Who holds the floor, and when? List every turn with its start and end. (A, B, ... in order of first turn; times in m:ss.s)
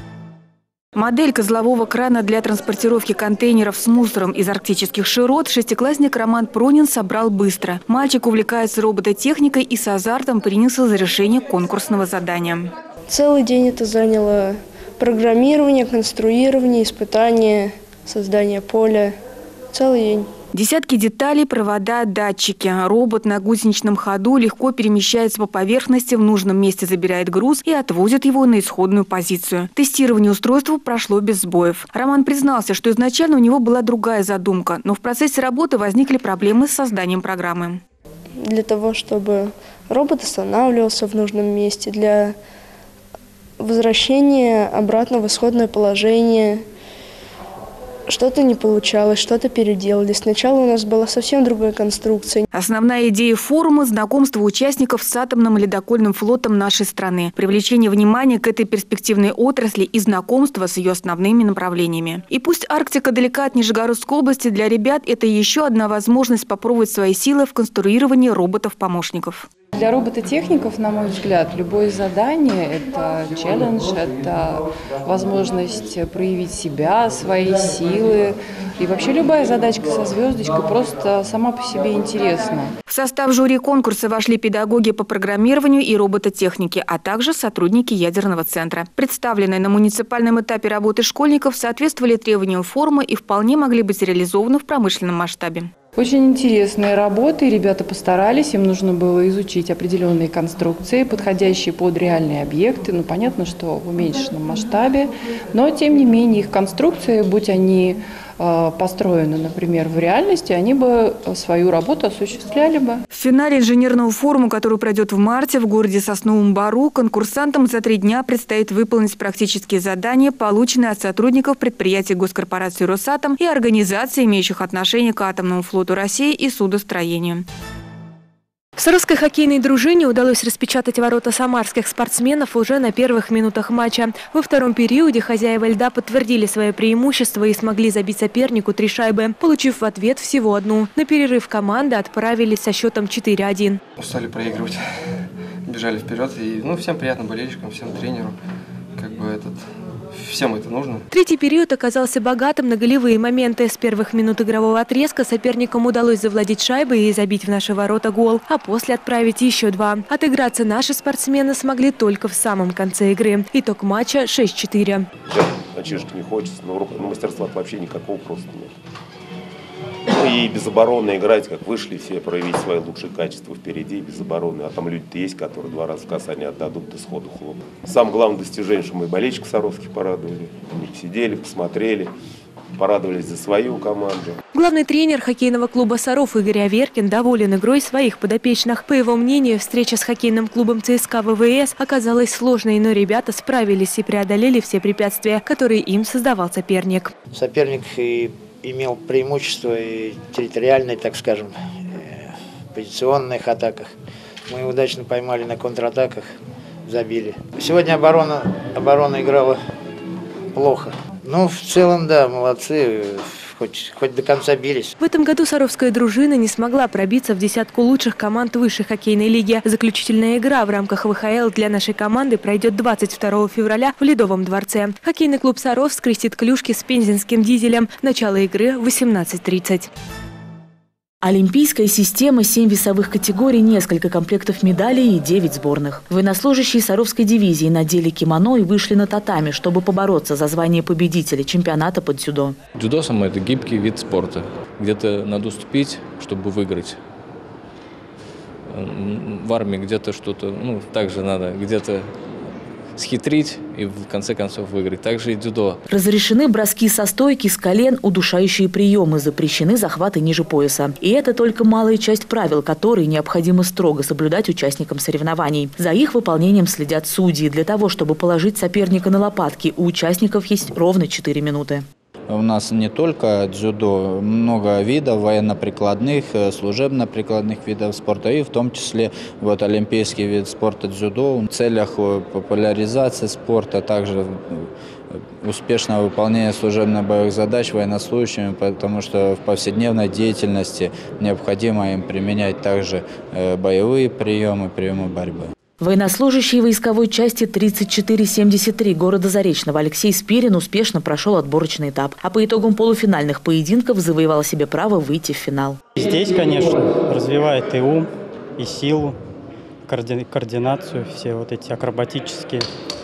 0:00.9-0:12.7 A
0:13.1-0:19.2 B
0:19.7-0:20.3 B
0:20.5-0:37.8 A
0:38.4-0:42.4 B
0:43.6-0:46.6 B
0:48.1-0:52.4 B
0:52.5-1:09.5 A
1:09.7-1:22.7 C
1:22.9-1:35.7 A
1:35.9-1:53.0 C
1:53.1-2:07.4 A
2:08.8-2:23.8 D
2:24.0-2:28.4 E
2:29.0-2:31.0 E
2:31.1-2:45.1 D
2:45.2-2:48.7 F
2:50.1-3:02.1 F
3:02.7-3:04.4 F
3:04.5-3:17.1 D
3:17.3-3:23.9 G
3:24.5-3:26.3 G
3:26.9-3:29.6 G
3:30.5-3:34.9 G
3:35.0-3:49.9 D
3:51.2-4:02.6 H
4:02.7-4:07.0 I
4:08.7-4:12.2 I
4:13.0-4:15.8 I
4:15.9-4:31.9 H
4:32.3-4:55.5 J
4:55.8-5:05.8 H
5:05.9-5:09.2 K
5:09.9-5:12.7 K